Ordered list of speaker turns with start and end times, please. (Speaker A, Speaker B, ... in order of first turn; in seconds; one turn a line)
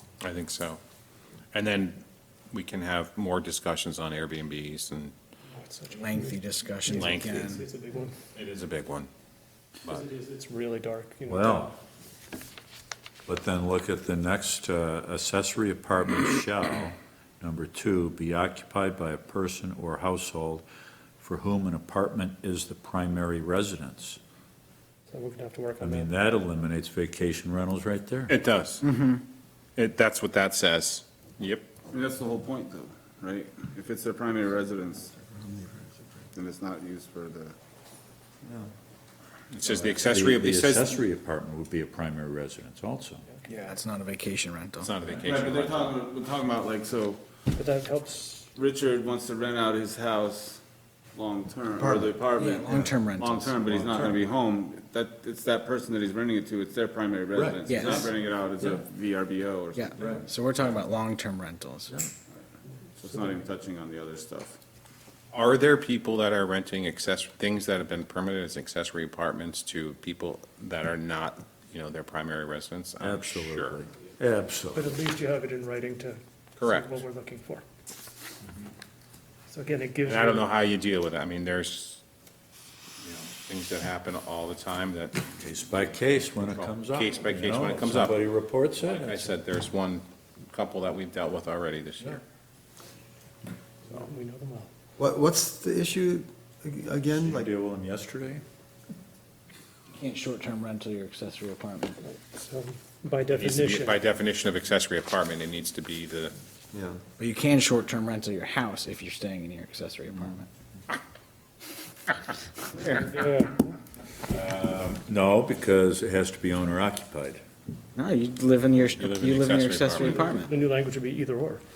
Speaker A: 0.2-0.8
Speaker A: 1.5-5.1
Speaker B: 5.5-8.2
Speaker C: 6.0-7.6
Speaker A: 6.9-7.6
Speaker A: 8.3-9.1
Speaker B: 9.9-11.7
Speaker D: 11.3-11.7
Speaker D: 13.3-20.6
Speaker D: 21.2-24.2
Speaker B: 25.1-26.1
Speaker D: 25.8-28.3
Speaker A: 28.3-28.9
Speaker C: 28.9-29.2
Speaker A: 29.8-31.7
Speaker E: 31.9-35.1
Speaker F: 35.1-36.2
Speaker E: 36.3-37.5
Speaker A: 39.5-40.9
Speaker D: 39.8-43.2
Speaker C: 43.5-44.9
Speaker A: 44.8-46.0
Speaker E: 45.1-47.2
Speaker B: 47.5-48.5
Speaker E: 48.5-50.6
Speaker E: 51.1-60.3
Speaker F: 51.8-52.1
Speaker C: 52.3-53.8
Speaker D: 57.4-57.6
Speaker C: 57.6-58.1
Speaker C: 59.7-62.0
Speaker E: 63.0-64.6
Speaker A: 65.3-73.8
Speaker D: 73.0-75.0
Speaker B: 74.7-77.6
Speaker A: 76.6-77.0
Speaker B: 79.5-80.5
Speaker A: 80.0-82.0
Speaker A: 83.0-85.2
Speaker D: 85.4-89.4
Speaker A: 86.3-88.2
Speaker A: 88.8-92.2
Speaker B: 93.9-94.7
Speaker F: 95.0-97.5
Speaker D: 97.2-98.4
Speaker C: 100.0-102.0
Speaker B: 102.0-104.0
Speaker A: 103.3-106.3
Speaker F: 106.7-107.0
Speaker C: 107.2-110.5
Speaker B: 112.8-113.7
Speaker A: 114.3-115.0
Speaker D: 114.9-117.4
Speaker C: 118.0-120.5
Speaker A: 118.9-120.3
Speaker B: 120.0-121.6